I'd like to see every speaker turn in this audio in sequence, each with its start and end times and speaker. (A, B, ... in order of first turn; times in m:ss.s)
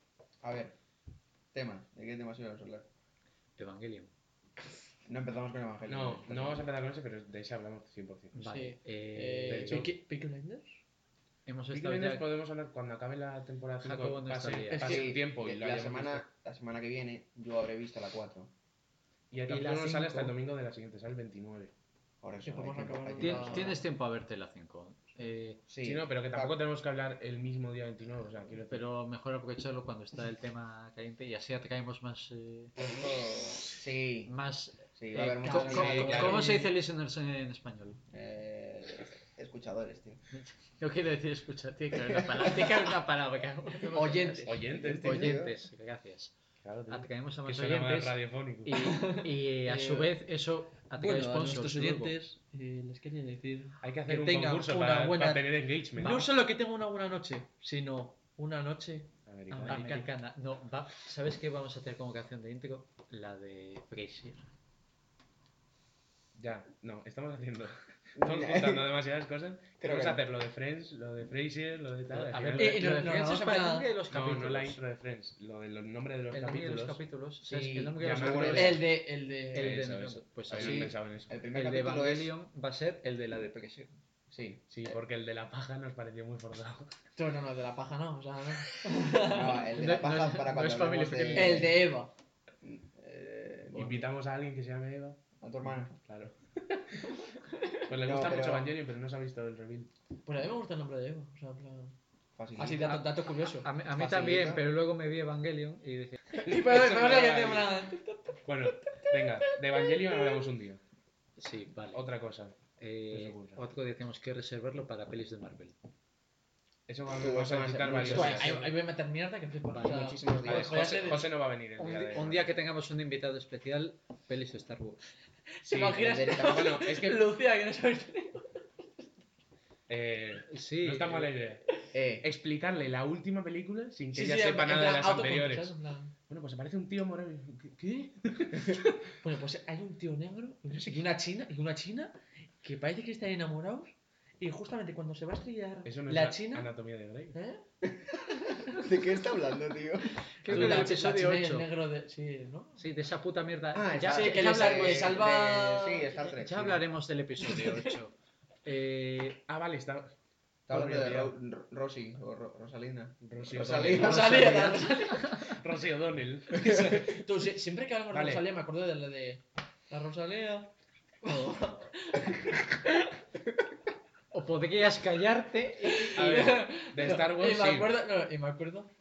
0:00.4-0:00.7 A
0:01.5-0:02.9 A
0:03.6-0:04.1 B
0:05.0-0:06.7 A
0:05.9-0:08.5 C
0:08.3-0:09.8 B
0:08.5-0:10.8 D
0:09.5-0:09.9 C
0:11.4-0:12.3 B
0:11.7-0:16.2 C
0:13.8-0:15.0 B
0:14.7-0:15.1 D
0:14.8-0:18.5 A
0:19.3-0:21.7 C
0:19.5-0:20.3 B
0:22.2-0:23.8 A
0:22.4-0:23.8 D
0:23.2-0:25.6 B
0:25.7-0:26.6 A
0:25.8-0:28.8 C
0:28.7-0:32.8 B
0:32.8-0:34.3 A
0:34.2-0:38.0 B
0:35.0-0:36.4 A
0:35.4-0:36.7 D
0:35.6-0:36.5 C
0:38.1-0:40.2 A
0:40.3-0:46.3 B
0:42.1-0:42.7 A
0:43.9-0:44.6 D
0:44.4-0:45.4 C
0:44.7-0:45.6 A
0:46.6-0:48.8 C
0:46.9-0:52.2 B
0:48.8-0:50.1 D
0:51.0-1:00.1 D
0:53.8-0:56.3 C
0:59.3-1:00.0 C
0:59.5-1:04.4 B
1:06.3-1:13.0 C
1:08.2-1:08.9 A
1:09.8-1:10.2 A
1:12.1-1:14.8 B
1:12.6-1:13.9 D
1:14.1-1:17.0 C
1:16.3-1:19.0 B
1:17.4-1:18.8 A
1:18.0-1:18.8 C
1:18.5-1:19.8 D
1:19.5-1:21.0 B
1:19.5-1:21.3 C
1:20.5-1:22.3 A
1:21.5-1:24.0 B
1:24.3-1:25.0 A
1:24.7-1:26.9 C
1:27.2-1:29.6 D
1:29.2-1:31.8 A
1:29.5-1:31.7 B
1:31.3-1:32.1 D
1:32.6-1:34.0 A
1:33.7-1:35.2 C
1:35.4-1:35.9 A
1:36.0-1:37.0 C
1:37.8-1:39.9 C
1:38.0-1:38.7 A
1:40.2-1:41.9 D
1:42.4-1:42.9 A
1:42.6-1:43.7 D
1:42.7-1:46.2 B
1:43.9-1:44.6 A
1:46.3-1:50.4 D
1:46.4-1:47.7 C
1:48.4-1:50.8 C
1:51.4-1:52.0 B
1:51.9-1:52.6 C
1:52.8-1:55.8 B
1:53.1-1:53.6 C
1:56.9-1:58.7 C
1:57.2-1:58.6 A
1:58.0-2:01.3 D
1:59.7-2:01.0 A
2:00.4-2:02.4 C
2:01.8-2:05.0 B
2:05.6-2:07.2 C
2:05.6-2:08.5 D
2:06.0-2:06.6 A
2:09.9-2:11.6 C
2:10.5-2:11.3 B
2:11.9-2:12.2 A
2:12.2-2:15.7 C
2:14.1-2:16.1 D
2:16.3-2:19.1 C
2:19.2-2:26.7 D
2:20.7-2:21.1 C
2:25.8-2:27.4 C
2:27.3-2:27.6 D
2:27.8-2:30.1 A
2:30.4-2:32.8 D
2:30.4-2:31.7 B
2:30.5-2:31.0 C
2:32.8-2:35.2 B
2:33.7-2:36.8 A
2:34.1-2:36.1 D
2:36.2-2:38.1 B
2:38.6-2:39.4 B
2:39.5-2:40.1 C
2:40.7-2:41.3 C
2:40.7-2:44.9 A
2:43.2-2:44.5 C
2:44.0-2:45.6 D
2:44.3-2:44.8 B
2:45.3-2:47.2 C
2:46.5-2:47.0 A
2:46.6-2:50.7 D
2:48.1-2:48.4 C
2:51.2-2:52.8 D
2:54.3-2:56.2 B
2:55.9-2:58.9 D
2:56.1-2:58.0 C